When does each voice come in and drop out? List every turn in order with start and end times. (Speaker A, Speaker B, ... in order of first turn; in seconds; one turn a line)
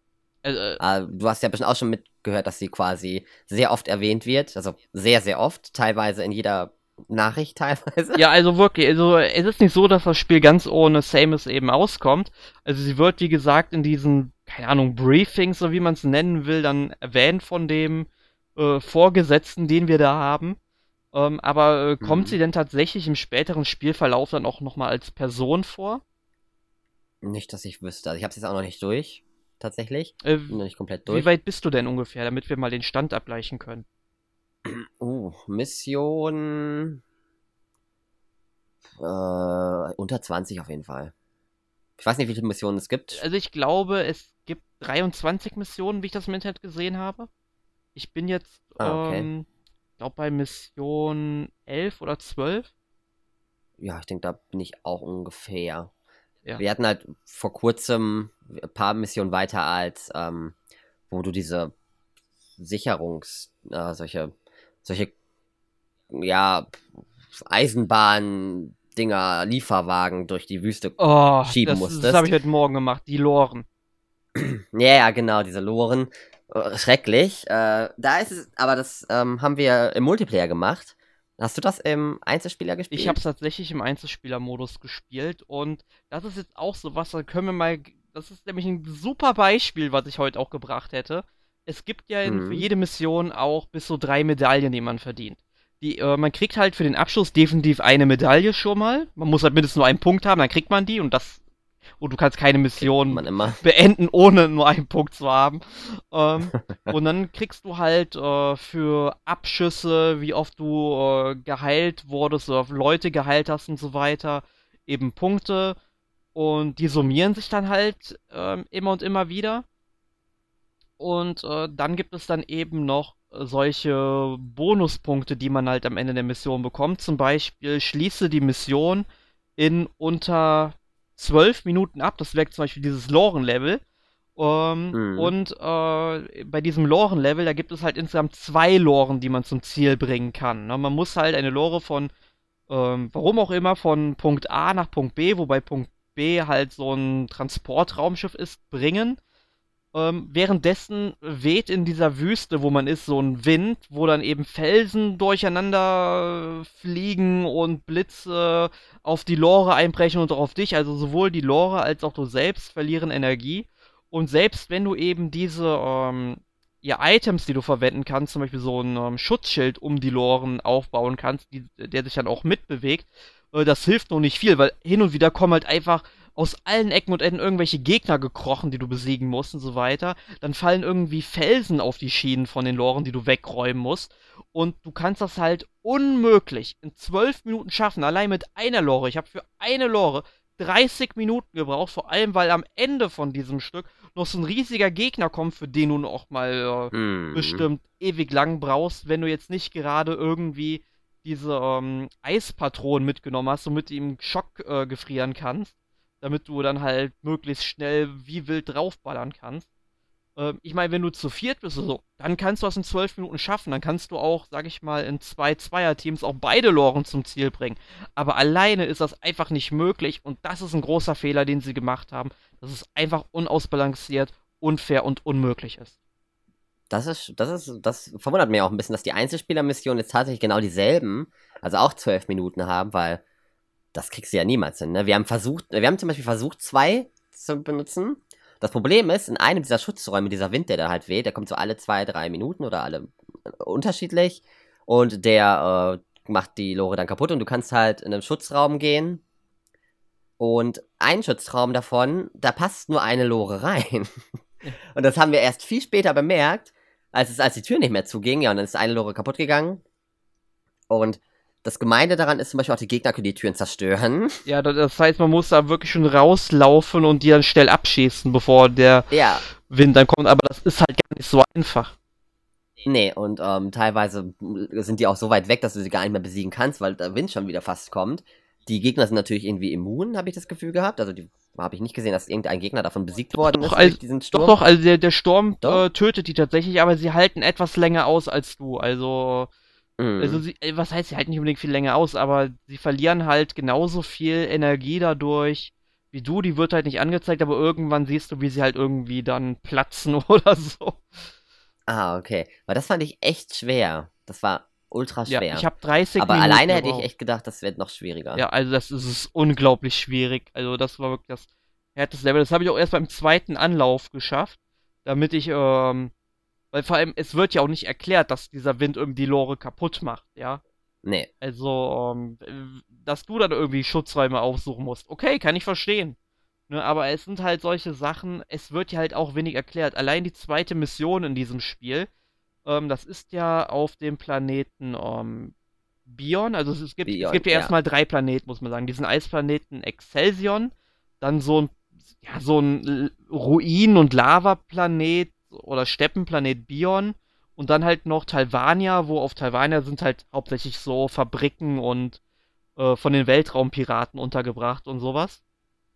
Speaker A: 0.4-0.8
Speaker B: 0.8-8.2
Speaker A: 8.2-20.6
Speaker A: 21.1-26.0
Speaker B: 22.0-22.4
Speaker B: 27.2-31.3
Speaker A: 30.2-33.9
Speaker B: 34.6-37.0
Speaker B: 39.0-41.1
Speaker B: 42.0-43.2
Speaker A: 43.1-47.3
Speaker A: 48.0-49.5
Speaker B: 48.8-49.3
Speaker A: 50.0-52.7
Speaker B: 53.8-55.9
Speaker B: 56.6-60.5
Speaker B: 61.1-61.7
Speaker B: 62.6-65.1
Speaker B: 66.1-72.3
Speaker A: 71.0-73.7
Speaker B: 74.3-83.2
Speaker A: 82.9-101.4
Speaker B: 92.2-92.7
Speaker A: 102.0-115.8
Speaker B: 102.8-103.6
Speaker B: 106.5-106.9
Speaker A: 116.3-119.7
Speaker A: 121.0-129.1
Speaker A: 129.6-133.8
Speaker A: 134.4-142.1
Speaker B: 134.9-135.3
Speaker A: 142.7-149.2
Speaker A: 149.9-209.7
Speaker B: 196.9-197.7
Speaker A: 210.4-225.9
Speaker B: 226.9-233.2
Speaker B: 233.9-249.2
Speaker B: 250.4-254.2
Speaker B: 254.8-259.8
Speaker B: 260.9-264.4
Speaker A: 264.5-271.9
Speaker B: 269.1-269.4
Speaker B: 272.9-284.6
Speaker A: 283.4-289.5
Speaker B: 290.0-290.4
Speaker A: 290.2-301.1
Speaker B: 301.9-305.7
Speaker A: 305.3-307.1
Speaker B: 306.2-308.4
Speaker A: 308.4-316.1
Speaker A: 316.7-320.6
Speaker B: 321.0-321.3
Speaker A: 321.4-326.2
Speaker A: 326.7-332.1
Speaker A: 332.7-335.5
Speaker A: 336.1-352.2
Speaker B: 337.1-337.7
Speaker A: 352.8-355.4